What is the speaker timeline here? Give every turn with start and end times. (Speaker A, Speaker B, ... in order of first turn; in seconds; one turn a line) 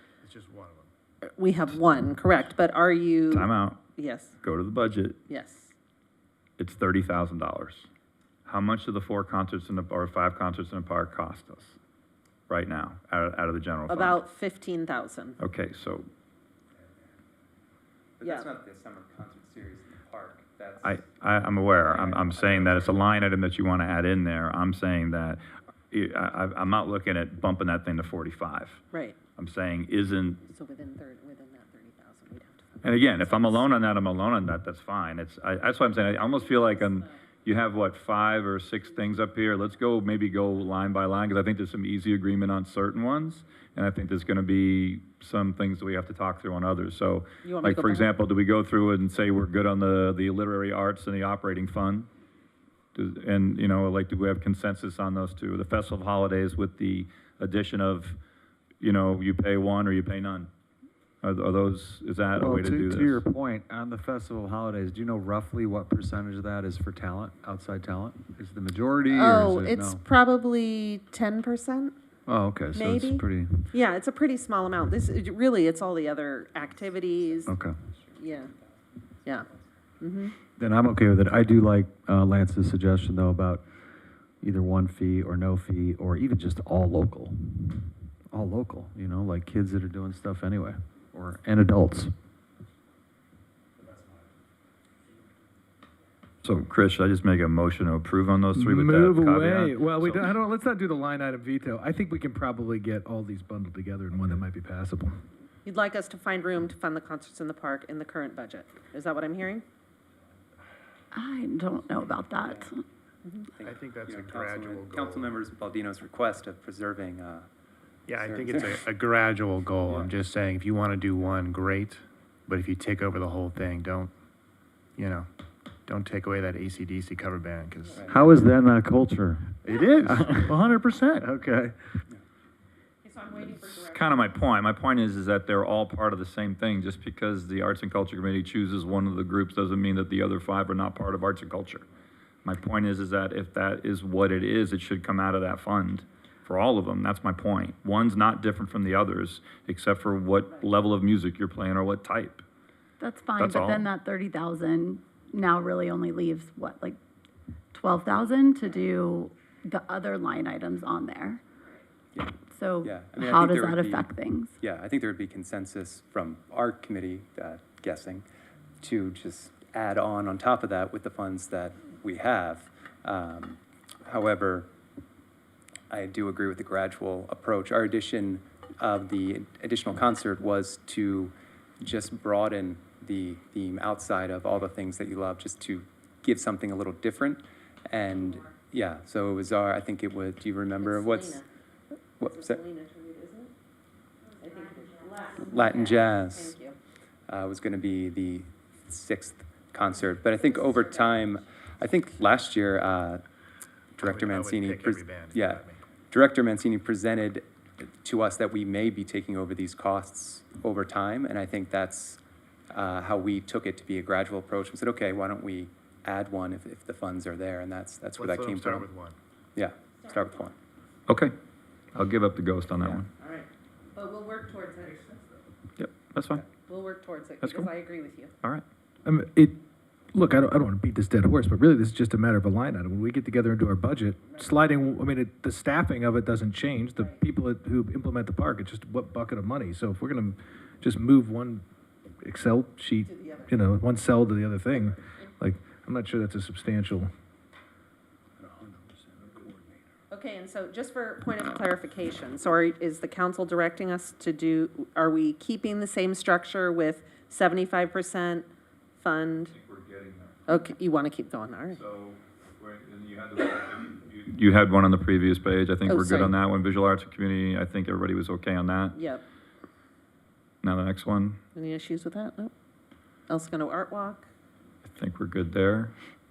Speaker A: 0.2-0.9
Speaker B: 1.4-4.4
Speaker C: 3.3-3.8
Speaker C: 4.4-5.2
Speaker B: 5.3-5.7
Speaker C: 6.6-7.9
Speaker C: 8.5-11.8
Speaker C: 12.5-14.2
Speaker B: 13.9-15.4
Speaker C: 15.4-16.1
Speaker D: 18.2-23.0
Speaker B: 18.2-18.5
Speaker C: 20.8-28.8
Speaker B: 28.9-29.2
Speaker C: 29.4-30.4
Speaker B: 30.4-33.7
Speaker C: 32.8-52.1
Speaker B: 36.4-37.0
Speaker B: 47.4-48.1
Speaker C: 52.9-58.2
Speaker C: 58.8-60.5
Speaker C: 61.2-63.2
Speaker E: 62.4-70.0
Speaker B: 69.1-72.0
Speaker E: 72.3-73.7
Speaker B: 72.7-77.6
Speaker E: 77.5-77.8
Speaker B: 78.2-78.5
Speaker B: 80.0-80.3
Speaker E: 80.6-83.7
Speaker E: 84.4-92.1
Speaker C: 96.4-100.4
Speaker F: 98.5-105.2
Speaker B: 105.7-109.7
Speaker G: 111.1-112.8
Speaker D: 112.4-112.7
Speaker D: 113.6-117.5
Speaker A: 113.6-115.4
Speaker A: 118.1-124.1
Speaker D: 118.2-118.8
Speaker A: 125.0-125.3
Speaker A: 125.9-128.1
Speaker E: 128.1-131.8
Speaker A: 129.6-130.9
Speaker B: 133.0-134.4
Speaker C: 133.7-141.8
Speaker C: 142.4-152.4
Speaker G: 153.0-157.0
Speaker C: 153.4-153.9
Speaker G: 157.7-161.4
Speaker B: 158.0-158.9
Speaker D: 162.1-168.3
Speaker G: 162.5-164.5
Speaker D: 168.8-174.7
Speaker D: 175.9-191.4
Speaker B: 190.8-191.5
Speaker D: 192.2-192.6
Speaker B: 192.2-193.5
Speaker B: 194.4-196.8
Speaker D: 195.3-196.6
Speaker D: 197.3-203.2
Speaker B: 200.3-201.5
Speaker D: 204.0-218.9
Speaker A: 204.0-205.8
Speaker A: 218.2-219.2
Speaker D: 219.6-220.6
Speaker C: 221.1-221.3
Speaker C: 221.9-223.1
Speaker D: 222.8-223.1
Speaker B: 223.2-225.2
Speaker C: 225.8-226.4
Speaker B: 226.7-228.3
Speaker C: 227.4-227.7
Speaker F: 229.1-229.6
Speaker F: 230.1-241.6
Speaker B: 234.2-234.6
Speaker F: 242.2-247.1
Speaker B: 243.0-243.6
Speaker F: 249.1-249.6
Speaker B: 250.1-259.5
Speaker C: 259.5-260.5
Speaker B: 260.5-261.8
Speaker C: 261.7-269.0
Speaker B: 265.9-266.4
Speaker B: 268.9-269.2
Speaker C: 270.6-271.4
Speaker B: 271.6-272.5
Speaker B: 273.3-274.3
Speaker C: 274.8-275.9